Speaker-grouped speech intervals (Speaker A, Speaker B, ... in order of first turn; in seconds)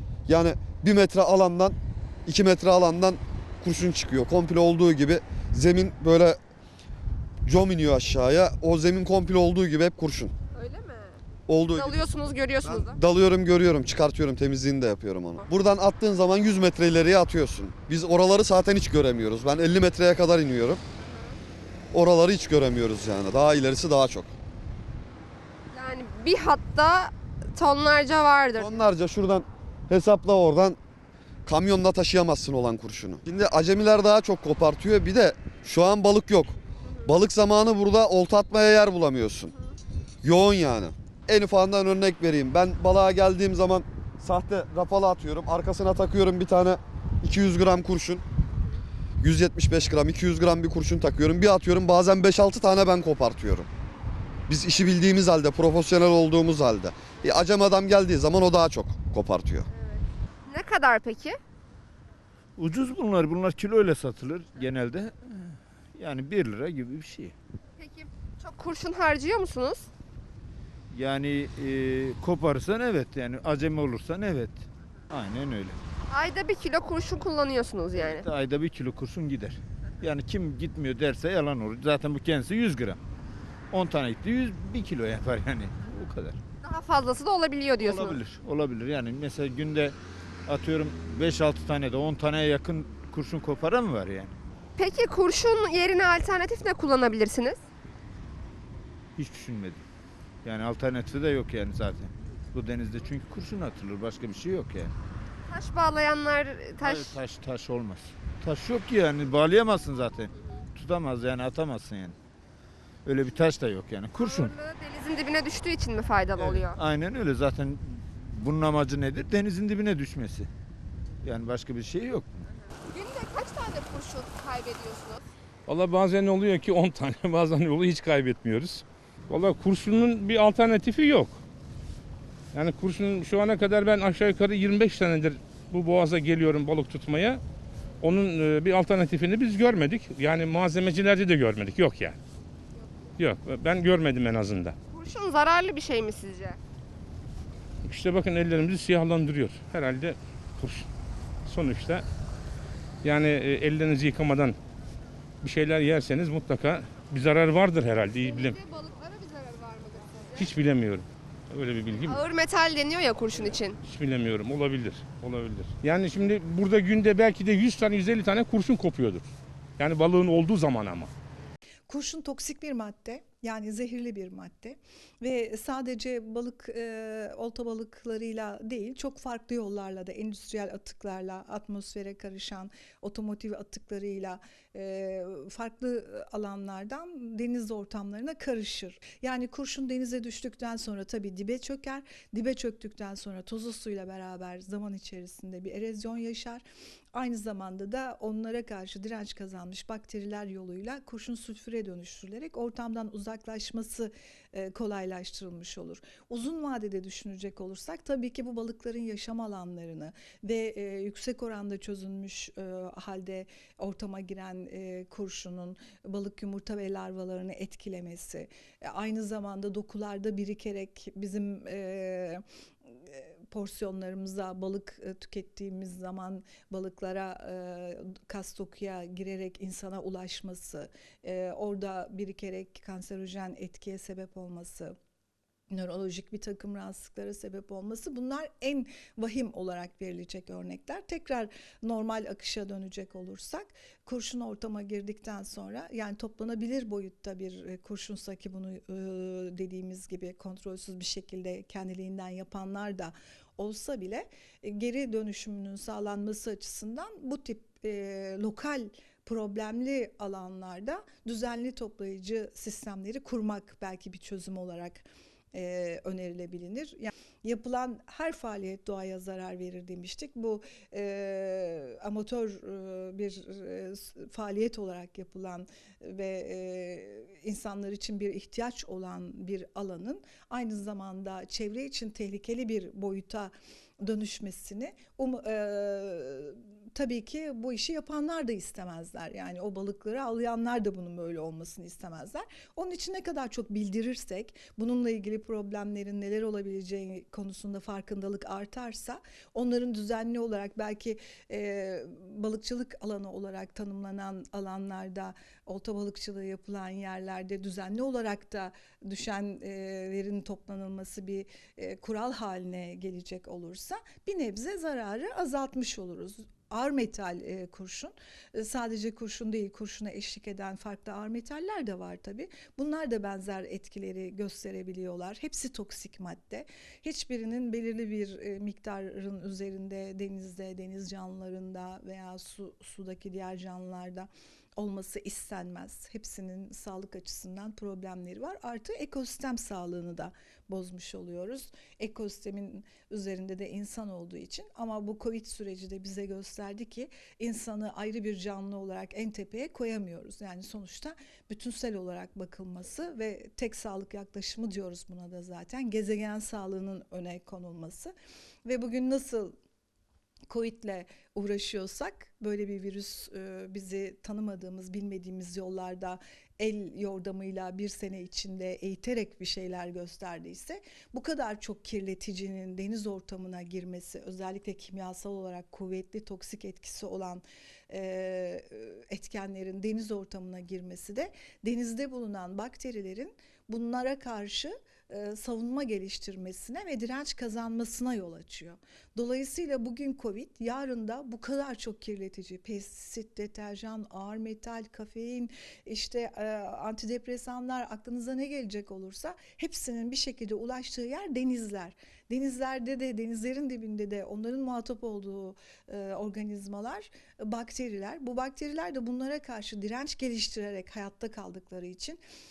Speaker A: 0.3-6.4, 7.4-10.3, 11.5-12.1, 12.6-20.8, 21.9-24.3, 28.6-30.8, 31.4-39.5, 40.2-48.2, 49.2-53.7, 54.5-59.6
Speaker B: 10.5-13.0, 21.0-21.4, 25.7-28.8, 36.8-37.1, 39.5-39.8, 59.7-61.4, 67.8-69.9, 76.1-78.3, 86.6-88.2, 94.8-97.6, 105.5-107.2, 114.1-116.8, 122.7-125.3, 144.9-146.6, 158.2-160.5, 162.1-163.8
Speaker C: 62.6-67.3, 70.9-75.8, 77.9-83.0, 83.7-86.4, 87.8-90.0, 90.5-94.3, 99.2-99.8, 100.4-104.9, 106.8-112.1, 113.0-114.5, 116.3-120.5, 121.2-122.5
Speaker D: 125.7-131.4, 132.5-137.4, 138.0-142.2, 143.2-144.8, 147.8-150.9, 151.4-152.0, 153.0-154.6, 155.4-158.6, 160.4-162.2, 163.8-169.2, 169.8-171.1
Speaker E: 171.9-196.6, 197.1-222.4, 223.0-234.9, 235.7-358.1, 358.6-359.5, 360.5-412.2